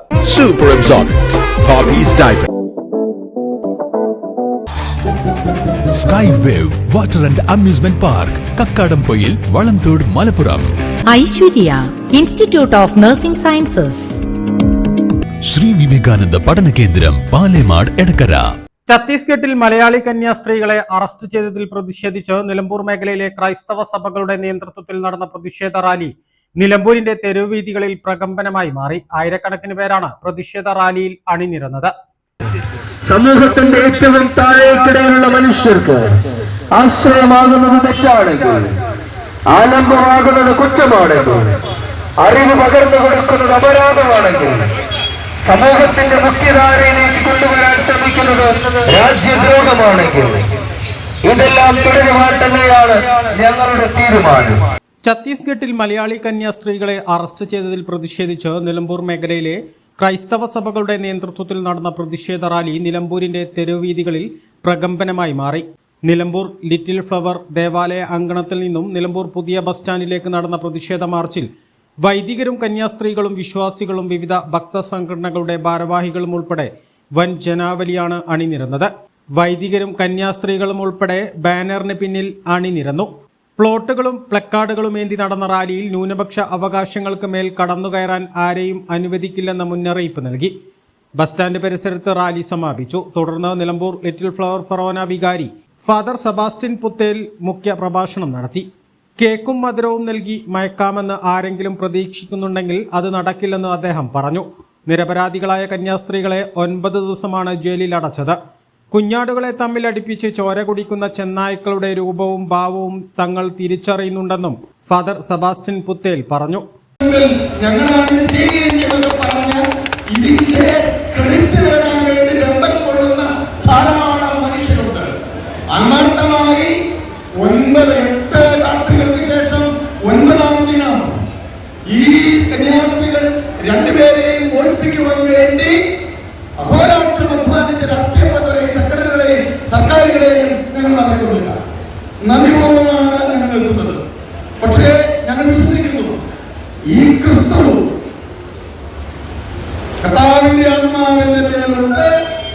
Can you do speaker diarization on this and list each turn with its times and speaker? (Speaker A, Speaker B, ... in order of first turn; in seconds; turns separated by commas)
Speaker A: 0.3-1.2, Speaker A: 1.8-2.1, Speaker A: 5.9-10.7, Speaker B: 11.1-14.2, Speaker A: 15.5-18.5, Speaker C: 18.9-31.9, Speaker D: 33.0-36.2, Speaker D: 36.7-38.8, Speaker D: 39.5-41.5, Speaker D: 42.2-44.7, Speaker D: 45.4-50.4, Speaker D: 51.2-54.6, Speaker C: 55.0-71.5, Speaker C: 72.0-90.5, Speaker C: 91.2-98.6, Speaker C: 99.2-108.3, Speaker C: 108.9-116.6, Speaker E: 117.0-125.1, Speaker E: 125.7-126.7, Speaker E: 127.4-131.2, Speaker E: 131.9-135.7, Speaker E: 136.6-141.6, Speaker E: 142.2-144.0, Speaker E: 144.6-146.2, Speaker E: 146.9-147.8, Speaker E: 150.0-152.1